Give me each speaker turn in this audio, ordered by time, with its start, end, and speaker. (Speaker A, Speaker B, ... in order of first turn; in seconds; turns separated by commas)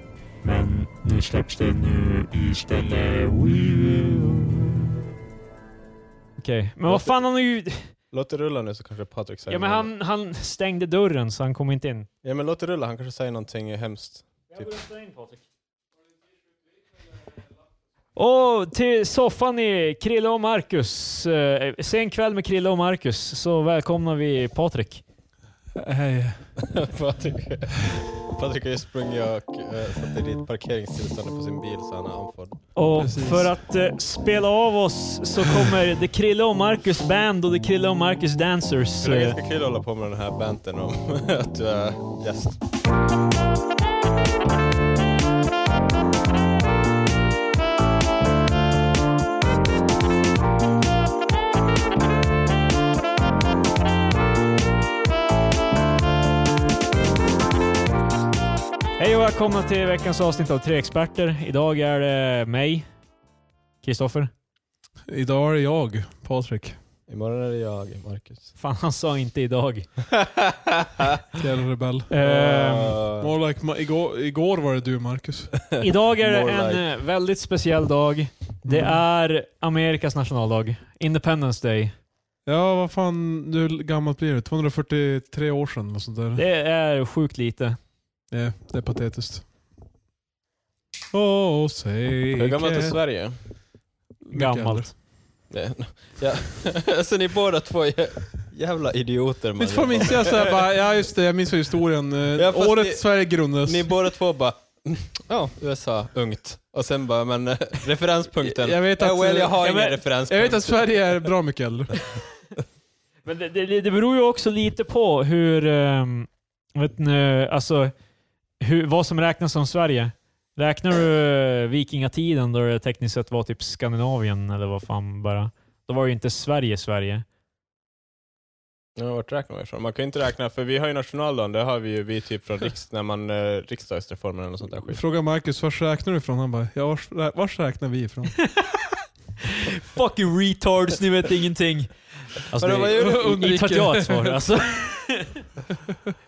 Speaker A: 0.4-4.8, Speaker B: 6.4-7.9, Speaker C: 6.9-7.2, Speaker C: 8.1-9.9, Speaker B: 9.5-12.1, Speaker C: 12.2-14.7, Speaker B: 14.5-15.4, Speaker B: 18.1-25.0, Speaker D: 25.8-26.6, Speaker C: 26.6-32.7, Speaker B: 32.8-39.4, Speaker D: 33.0-33.5, Speaker C: 39.0-42.6, Speaker B: 59.0-62.9, Speaker B: 63.8-64.3, Speaker D: 65.1-66.8, Speaker C: 67.1-68.5, Speaker B: 68.6-69.9, Speaker C: 70.1-71.1, Speaker D: 71.3-72.1, Speaker B: 72.1-73.0, Speaker C: 72.2-73.3, Speaker D: 73.2-75.5, Speaker C: 75.7-76.8, Speaker B: 75.8-81.9, Speaker D: 78.7-79.0, Speaker D: 82.5-86.4, Speaker B: 86.4-87.8, Speaker D: 88.3-89.5, Speaker D: 91.1-93.0, Speaker C: 92.4-93.4, Speaker D: 94.2-95.0, Speaker B: 94.3-94.9, Speaker C: 95.5-100.6, Speaker D: 99.6-103.9, Speaker C: 102.4-103.1, Speaker C: 103.6-111.3, Speaker D: 108.4-109.7, Speaker B: 109.6-110.0, Speaker D: 110.2-112.1, Speaker B: 113.2-117.9, Speaker B: 118.6-127.2, Speaker C: 129.0-135.0, Speaker D: 134.9-138.4, Speaker B: 139.6-145.4, Speaker C: 142.6-143.3, Speaker D: 142.9-144.6